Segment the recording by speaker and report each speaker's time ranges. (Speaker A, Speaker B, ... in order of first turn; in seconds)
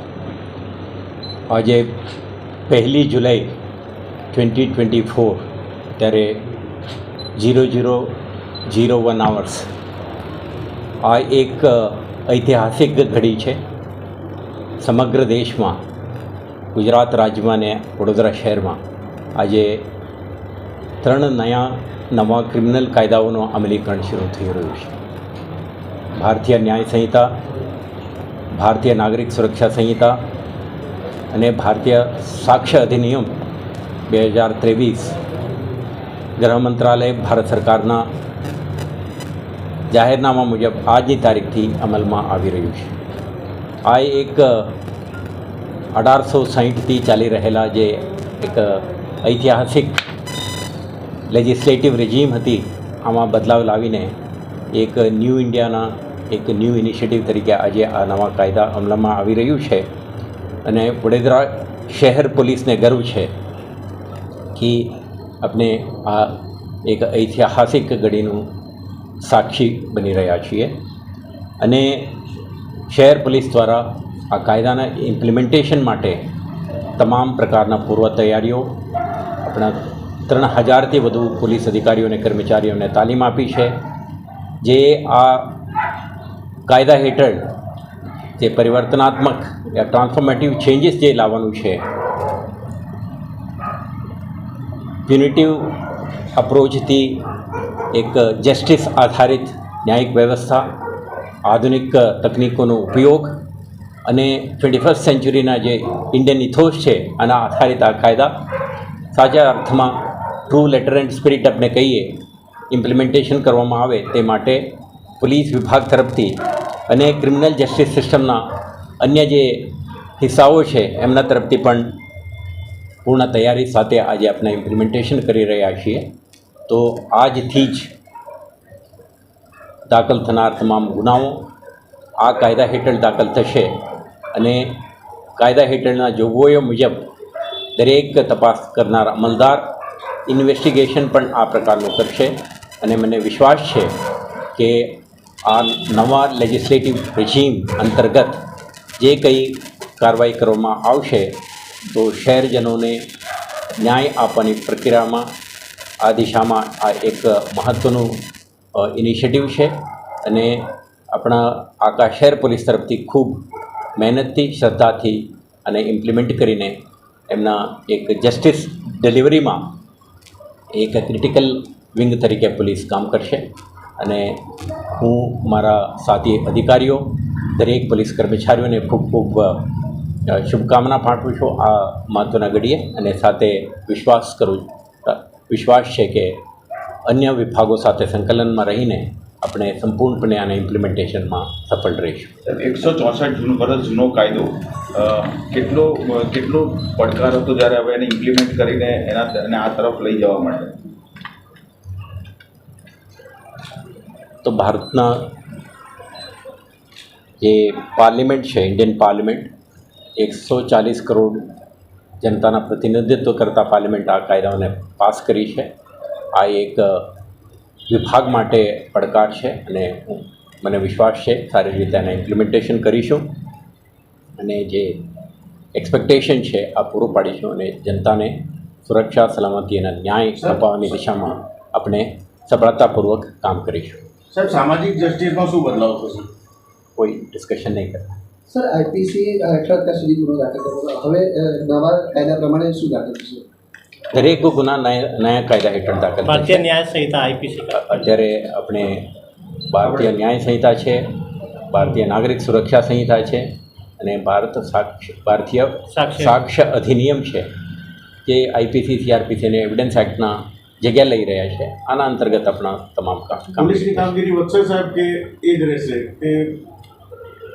Speaker A: 1.5-1.9, 2.7-3.5, 4.3-6.4, 7.3-9.7, 11.0-13.6, 14.8-15.8, 16.7-18.8, 19.4-19.9, 21.0-25.0, 26.2-27.3, 28.5-30.2, 31.3-33.4, 34.1-35.2, 36.4-38.1, 39.9-42.9, 43.8-44.8, 45.9-50.0, 51.3-54.1, 54.7-59.9, 60.6-63.3, 64.5-68.5, 69.2-70.7, 71.6-72.2, 72.9-76.2, 77.0-78.7, 79.4-83.8, 84.6-85.6, 86.7-87.5, 88.4-91.8, 95.0-97.2, 97.9-100.7, 101.5-103.3, 104.0-108.3, 109.1-112.1, 112.7-114.6, 115.2-116.3, 116.9-118.4, 119.0-121.9, 123.0-126.1, 126.7-127.9, 129.9-131.5, 132.2-133.7, 134.3-134.8, 135.4-137.1, 137.8-139.7, 140.2-143.9, 144.6-148.4, 149.0-151.3, 151.9-153.0, 153.8-155.2, 156.0-158.2, 158.8-163.4, 163.9-166.8, 167.3-169.7, 170.7-173.4, 174.0-186.4, 187.1-192.3, 204.4-205.2, 207.4-209.5, 210.2-211.5, 212.2-215.7, 216.3-217.1, 217.9-223.3, 224.4-225.1, 225.7-234.0, 236.9-238.2, 244.1-246.7, 247.7-257.5, 258.2-264.1
Speaker B: 192.4-200.8
Speaker C: 234.3-236.3, 263.6-266.6
Speaker D: 238.5-243.4
Speaker E: 246.2-248.0, 255.9-256.3